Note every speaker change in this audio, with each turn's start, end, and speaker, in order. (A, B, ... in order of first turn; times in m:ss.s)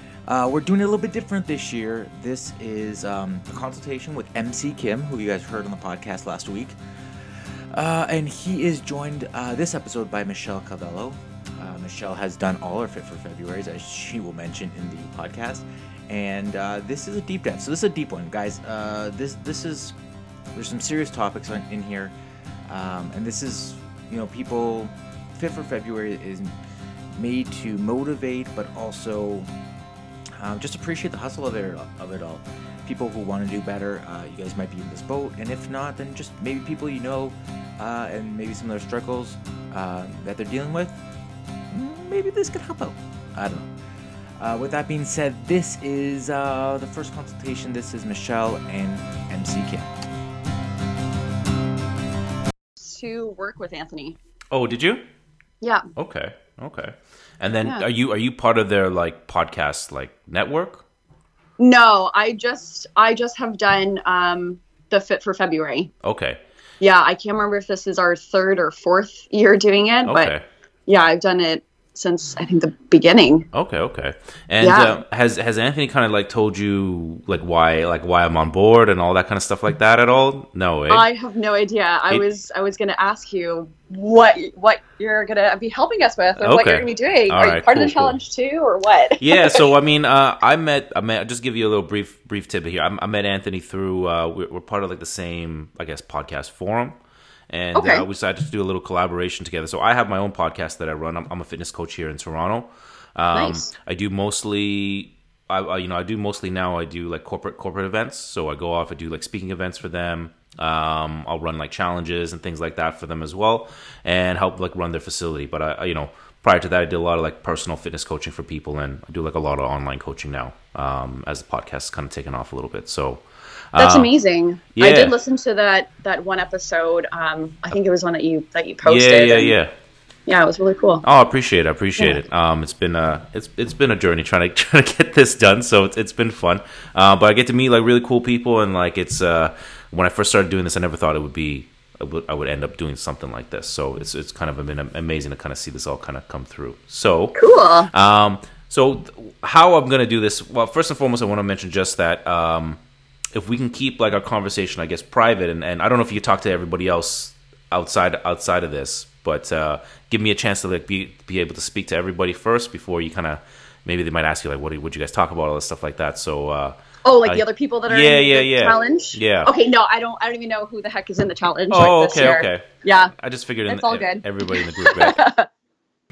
0:00.3-0:06.8 A
0:07.7-0:20.0 A
0:20.5-0:22.1 A
0:22.7-0:26.6 A
0:27.2-0:29.5 A
0:30.4-0:41.0 A
0:41.7-0:43.7 A
0:44.4-0:49.9 A
0:52.8-0:54.2 B
0:54.5-0:55.0 C
0:56.0-1:00.8 C
1:01.6-1:05.9 B
1:06.0-1:06.4 C
1:06.8-1:10.3 B
1:10.0-1:10.4 C
1:10.9-1:13.5 B
1:13.5-1:21.0 C
1:14.6-1:15.0 B
1:20.9-1:29.7 B
1:26.4-1:28.2 C
1:29.2-1:37.0 C
1:37.5-2:04.1 C
1:37.8-1:38.0 B
1:43.3-1:43.7 B
2:03.8-2:09.6 B
2:04.8-2:05.2 C
2:08.8-2:09.7 C
2:10.3-2:11.0 B
2:11.0-2:32.8 C
2:27.4-2:27.9 B
2:33.3-2:49.5 C
2:47.0-2:53.1 B
2:51.7-2:55.2 C
2:53.7-2:55.5 B